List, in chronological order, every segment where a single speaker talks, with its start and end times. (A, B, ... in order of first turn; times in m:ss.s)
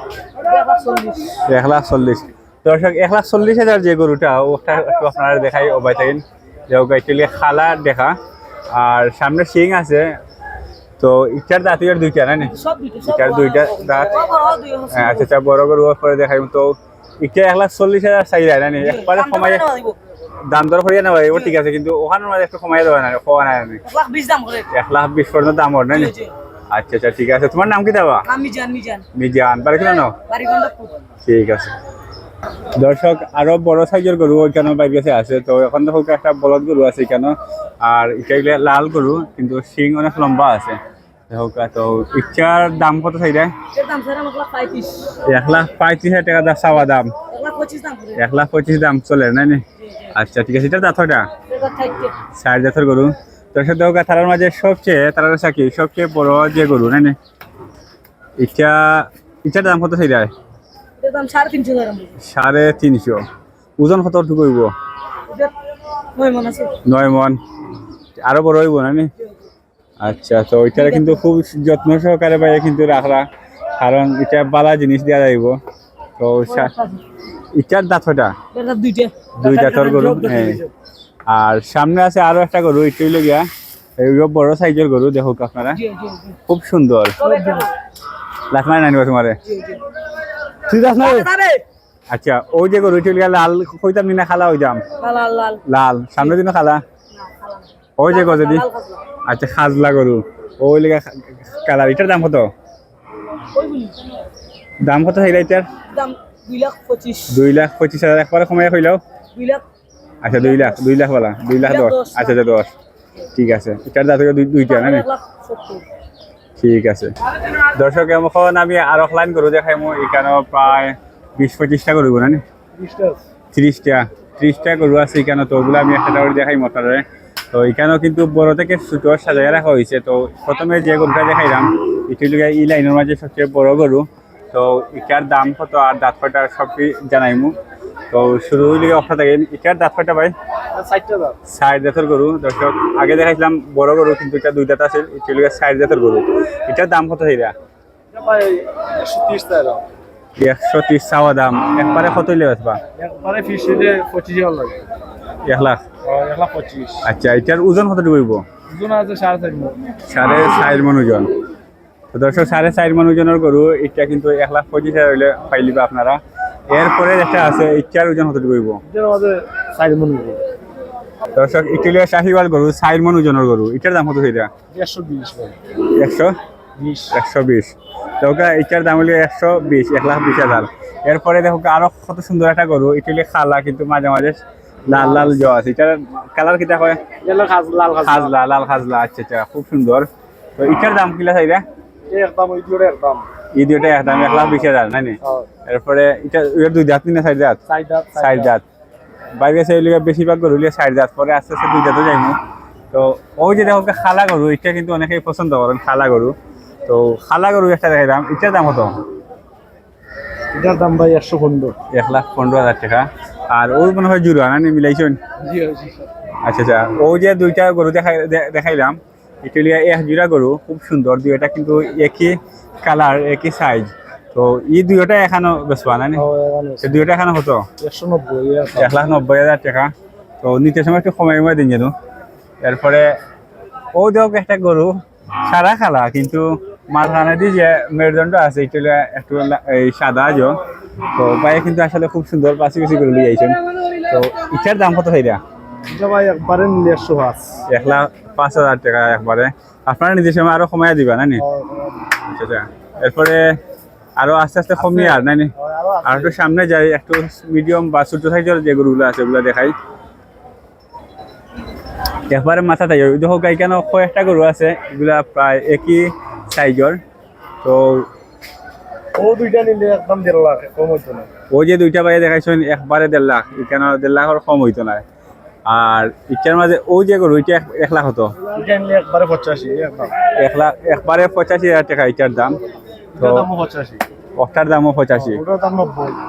0:00.4-0:01.4 A
0:01.5-0:08.2 B
0:08.7-0:10.1 B
0:11.0-0:14.2 B
0:12.4-0:15.3 A
0:14.9-0:19.7 B
0:18.8-0:20.0 A
0:20.5-0:23.8 B
0:23.9-0:24.7 A
0:24.7-0:26.1 B
0:25.9-0:26.3 A
0:26.7-0:28.3 B
0:28.3-0:29.0 A
0:29.1-0:30.2 B
0:30.3-0:31.0 A
0:31.2-0:31.7 B
0:32.8-0:40.8 B
0:41.3-0:43.5 B
0:43.7-0:45.2 A
0:45.2-0:47.1 B
0:47.3-0:48.2 A
0:48.2-0:51.3 B
0:51.5-0:52.2 A
0:52.3-0:57.2 B
0:58.4-1:00.3 B
1:01.0-1:02.1 A
1:02.2-1:03.2 B
1:03.8-1:04.7 B
1:06.2-1:06.8 A
1:06.8-1:07.4 B
1:08.2-1:09.1 B
1:10.0-1:13.2 B
1:10.8-1:11.2 A
1:13.8-1:15.5 B
1:16.2-1:16.7 B
1:16.5-1:17.0 A
1:17.5-1:18.4 B
1:18.5-1:20.7 A
1:19.4-1:20.6 B
1:21.3-1:25.8 B
1:25.8-1:26.4 A
1:26.5-1:27.2 B
1:27.2-1:27.7 A
1:28.5-1:29.4 B
1:29.5-1:29.8 A
1:30.7-1:31.3 B
1:30.8-1:31.6 A
1:32.1-1:34.8 B
1:35.0-1:35.6 A
1:35.7-1:36.8 B
1:37.2-1:39.0 A
1:38.0-1:38.6 B
1:39.2-1:42.5 B
1:43.5-1:44.1 A
1:44.8-1:45.7 B
1:45.9-1:47.4 A
1:47.3-1:49.0 B
1:49.4-1:49.6 A
1:50.2-1:52.7 B
1:51.6-1:52.4 A
1:53.4-1:55.0 B
1:54.7-1:55.8 A
1:56.6-1:57.1 B
1:57.7-2:02.4 B
2:02.8-2:03.2 C
2:03.5-2:17.5 B
2:18.1-2:20.3 B
2:20.7-2:21.4 C
2:21.5-2:27.5 B
2:28.1-2:29.8 C
2:30.4-2:32.8 B
2:33.0-2:34.8 C
2:35.4-2:35.8 B
2:36.0-2:37.1 C
2:37.0-2:38.4 B
2:38.7-2:39.8 C
2:40.1-2:41.3 B
2:42.1-2:48.8 B
2:48.9-2:50.4 C
2:51.4-2:54.5 B
2:54.7-2:55.6 C
2:55.9-2:56.4 B
2:56.8-2:57.2 C
2:57.1-3:07.0 B
3:04.9-3:05.3 C
3:07.2-3:08.4 C
3:08.0-3:11.6 B
3:12.1-3:13.3 C
3:13.6-3:17.6 B
3:17.7-3:18.5 C
3:18.2-3:18.6 B
3:19.4-3:22.4 B
3:22.9-3:26.4 B
3:26.9-3:29.0 B
3:30.5-3:31.8 C
3:31.9-3:35.2 B
3:35.4-3:36.1 C
3:36.4-3:46.2 B
3:46.1-3:47.1 C
3:46.8-3:47.7 B
3:47.8-3:49.0 C
3:48.7-3:49.9 B
3:50.4-3:51.9 B
3:52.6-3:53.1 B
3:53.9-4:00.6 B
4:01.2-4:05.4 B
4:05.9-4:07.6 C
4:07.7-4:11.4 B
4:11.4-4:12.1 C
4:12.2-4:13.4 B
4:14.2-4:15.5 B
4:14.8-4:16.4 C
4:16.0-4:19.7 B
4:22.3-4:27.0 B
4:27.6-4:28.1 B
4:29.2-4:31.3 C
4:31.5-4:35.0 B
4:35.7-4:38.3 B
4:38.5-4:40.1 C
4:40.4-4:42.6 B
4:43.2-4:44.0 C
4:43.2-4:43.5 B
4:44.4-4:45.4 B
4:45.1-4:46.2 C